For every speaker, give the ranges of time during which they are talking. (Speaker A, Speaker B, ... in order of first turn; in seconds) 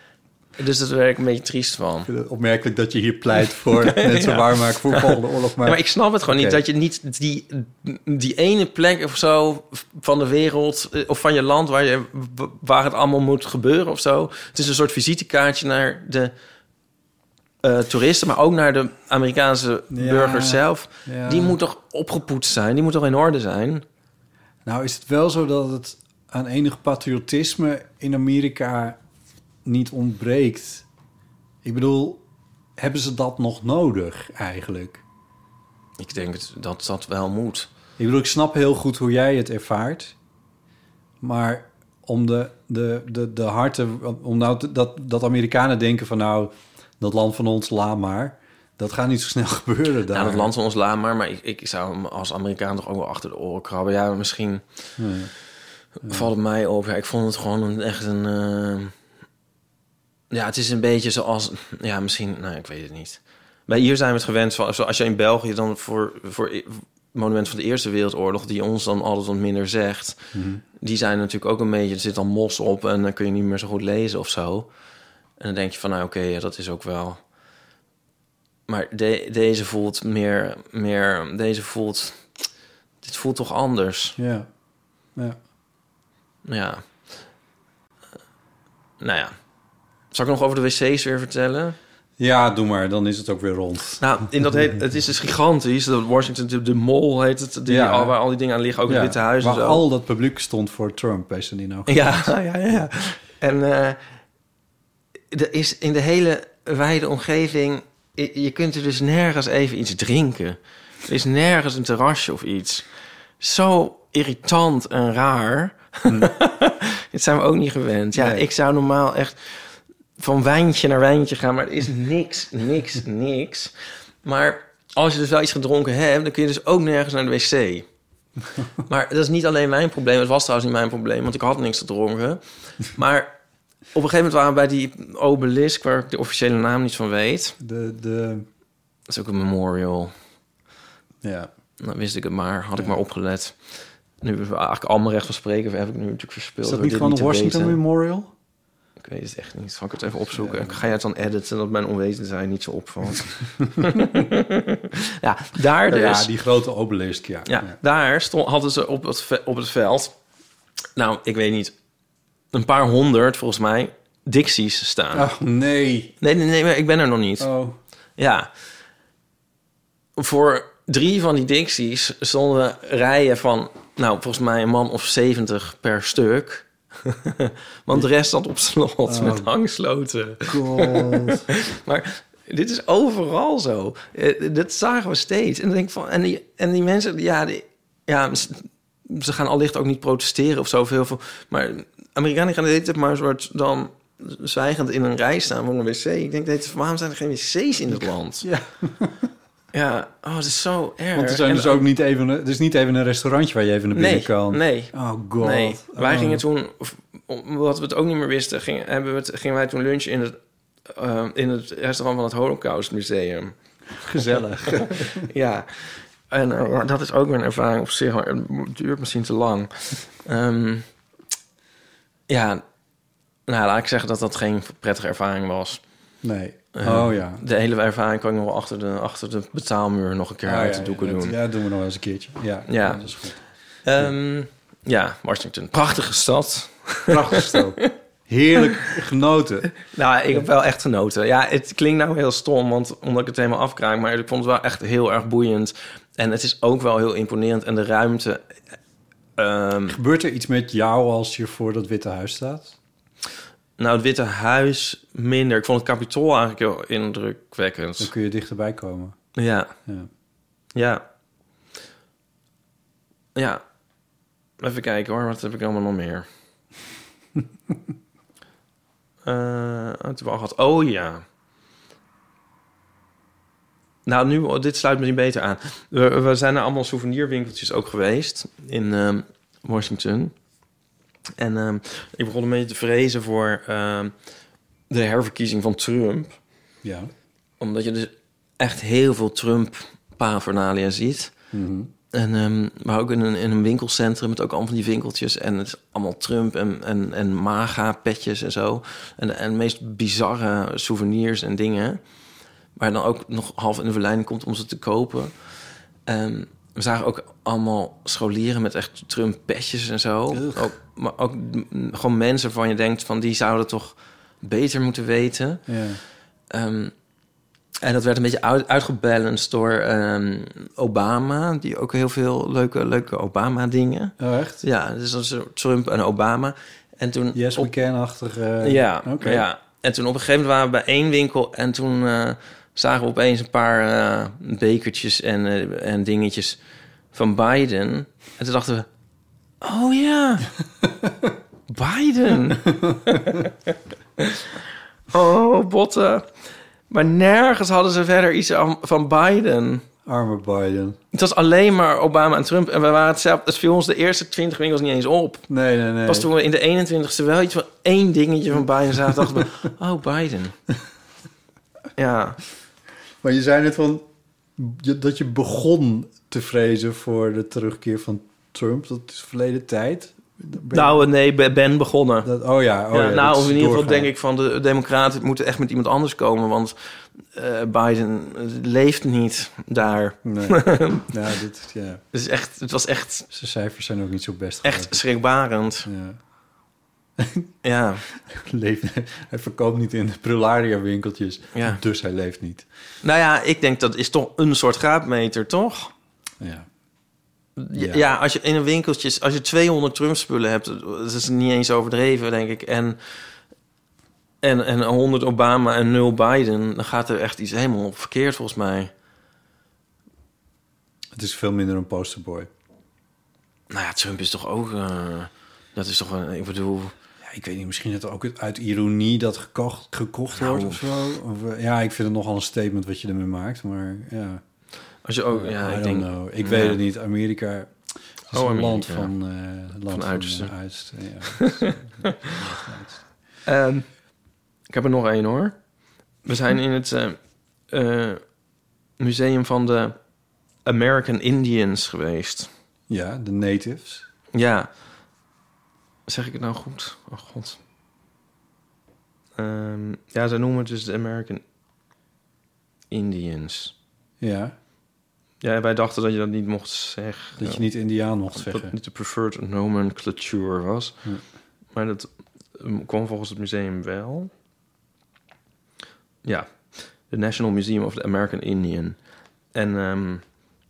Speaker A: 0.6-2.1, 3.8-16.3, 17.6-23.9, 36.0-37.7, 50.1-54.6, 56.0-58.9, 60.3-70.2, 70.8-74.7, 75.4-77.2, 78.7-82.2, 83.0-84.2, 86.5-86.8, 89.0-89.3, 90.1-91.8, 94.0-99.8, 101.9-104.0, 105.3-112.8, 113.4-119.6, 120.2-123.7, 124.2-127.9, 128.9-133.3, 133.9-137.6, 139.1-140.1, 141.8-143.6, 144.2-147.8, 149.0-156.3, 157.5-160.1, 161.0-161.7, 162.5-165.3, 166.2-167.5, 168.2-168.5, 170.2-198.5, 199.7-201.8, 203.9-210.4, 210.9-213.6, 214.2-220.9, 222.3-222.6, 223.5-225.8, 226.8-231.4, 232.7-233.0, 233.8-237.9, 239.8-248.4, 249.4-250.0, 253.8-258.1, 259.4-259.7, 260.8-261.0, 263.4-263.6, 264.6-266.3, 269.2-271.2, 274.1-280.3, 281.4-284.1, 284.9-286.4, 287.6-291.3, 292.1-302.0, 302.8-305.3, 306.1-315.6, 316.5-316.9, 317.8-327.7, 328.6-336.6, 337.1-338.9, 339.6-340.5, 341.7-344.6, 345.1-346.3, 346.9-349.9, 351.1-355.5, 356.1-360.6, 362.0-362.4, 370.7-372.3, 372.9-376.8, 377.3-381.1, 382.1-383.3, 384.6-385.9, 387.6-388.0, 391.6-391.8, 393.0-395.9, 397.6-403.0, 404.4-408.9, 413.7-416.9, 420.4-420.8, 425.1-426.8, 428.3-429.1, 429.9-430.5, 431.3-432.5, 433.5-433.9, 434.7-435.6, 436.2-437.2, 437.7-438.2, 439.0-440.0, 440.6-442.5, 444.3-444.7, 446.1-447.6, 449.4-451.4, 452.9-453.7, 455.4-457.6, 458.4-460.9, 461.8-464.3, 466.2-469.0, 469.5-470.2
Speaker B: 2.1-6.6, 19.9-21.6, 24.6-29.0, 29.6-30.9, 31.6-32.2, 32.8-35.0, 38.0-40.1, 41.2-50.5, 55.0-55.3, 70.3-70.6, 84.2-84.5, 92.2-94.7, 97.7-98.1, 98.9-102.3, 116.1-116.3, 118.1-118.4, 137.6-138.5, 141.2-141.5, 146.6-148.3, 150.3-150.8, 155.8-157.8, 165.1-166.1, 167.4-167.8, 179.1-179.5, 180.5-181.5, 197.9-199.3, 201.1-206.4, 214.0-215.2, 226.2-227.4, 230.4-233.4, 237.1-239.7, 249.9-252.8, 258.0-259.1, 286.8-287.1, 291.5-291.9, 310.3-310.7, 315.7-316.0, 324.2-324.6, 327.3-329.5, 350.1-351.0, 355.5-356.3, 363.2-364.1, 364.6-371.0, 372.2-374.1, 380.2-382.0, 383.3-385.0, 385.9-386.2, 387.2-387.5, 388.2-392.7, 396.4-396.6, 397.8-398.0, 411.1-412.5, 417.2-424.4, 425.3-427.7, 428.3-433.0, 442.9-444.1, 454.2-454.6, 457.4-458.7